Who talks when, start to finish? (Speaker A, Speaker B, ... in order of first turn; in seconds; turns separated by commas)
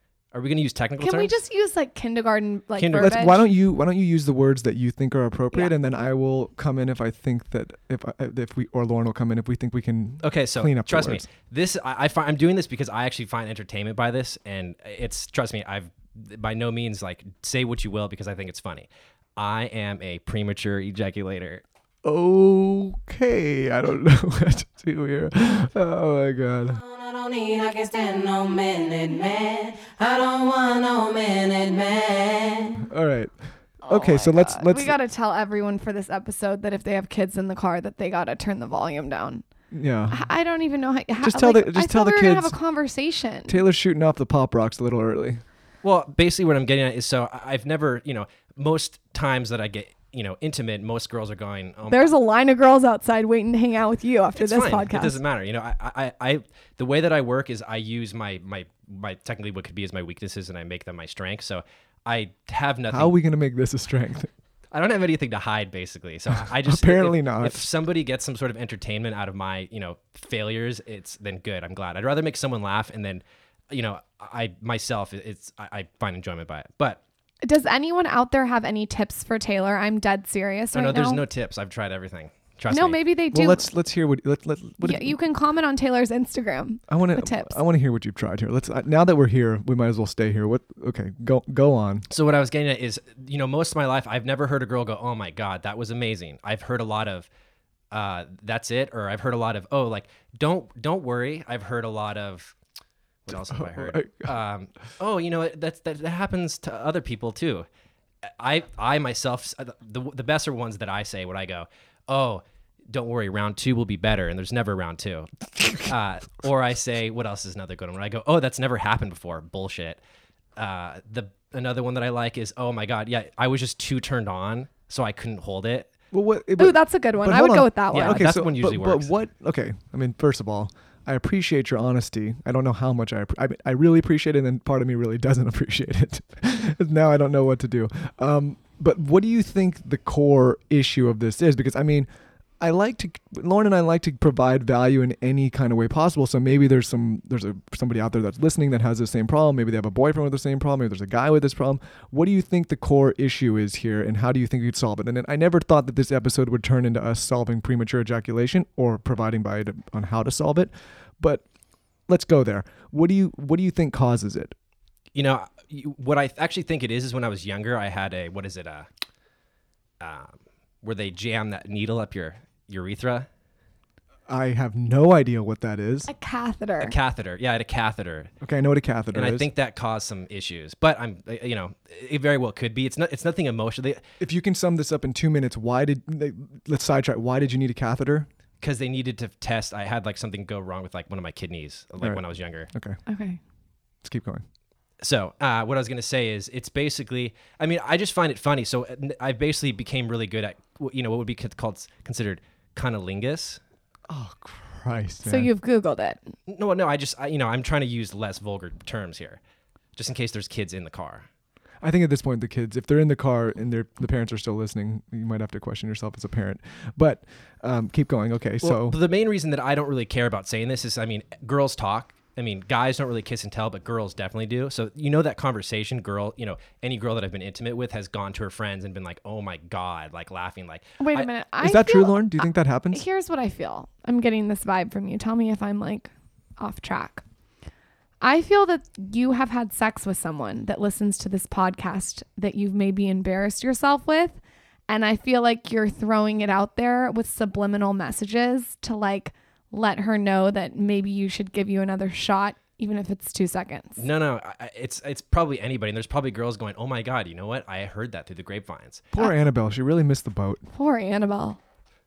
Speaker A: 0.3-1.3, Speaker B: 1.0-3.4, Speaker A: 2.8-3.3, Speaker C: 3.0-11.2, Speaker A: 10.2-21.6, Speaker C: 22.0-26.8, Speaker D: 26.7-32.8, Speaker C: 32.9-35.0, Speaker B: 33.8-39.4, Speaker C: 39.7-40.3, Speaker B: 40.1-43.6, Speaker C: 41.2-42.5, Speaker C: 43.5-45.4, Speaker A: 45.8-52.1, Speaker B: 51.9-55.2, Speaker A: 54.4-63.1, Speaker C: 62.9-64.3, Speaker A: 64.7-77.0, Speaker C: 66.6-67.6, Speaker B: 77.4-81.2, Speaker A: 80.7-83.0, Speaker B: 82.7-83.7, Speaker C: 83.3-85.2, Speaker B: 84.8-87.6, Speaker C: 86.9-92.0, Speaker A: 92.1-97.3, Speaker A: 97.9-102.5, Speaker A: 103.2-107.7, Speaker C: 103.3-104.3, Speaker A: 108.2-120.0, Speaker A: 120.6-125.9, Speaker C: 126.1-142.1, Speaker B: 126.6-128.2, Speaker A: 127.9-129.1, Speaker C: 142.6-161.4, Speaker C: 162.1-164.5, Speaker A: 165.1-168.9, Speaker A: 170.0-173.3, Speaker C: 174.3-176.1, Speaker B: 176.1-176.9, Speaker A: 176.8-178.3, Speaker C: 178.4-179.5, Speaker A: 179.1-184.0, Speaker C: 184.2-188.3, Speaker A: 188.6-192.7, Speaker C: 192.7-193.0, Speaker B: 193.1-193.4, Speaker C: 194.0-194.4, Speaker A: 195.0-203.6, Speaker C: 204.1-205.5, Speaker B: 205.2-206.3, Speaker A: 206.5-209.4, Speaker A: 209.9-211.3, Speaker C: 211.8-219.0, Speaker A: 218.6-231.3, Speaker B: 231.0-237.2, Speaker C: 231.6-233.0, Speaker B: 238.2-254.1, Speaker A: 254.0-259.1, Speaker C: 259.1-260.6, Speaker B: 260.7-261.6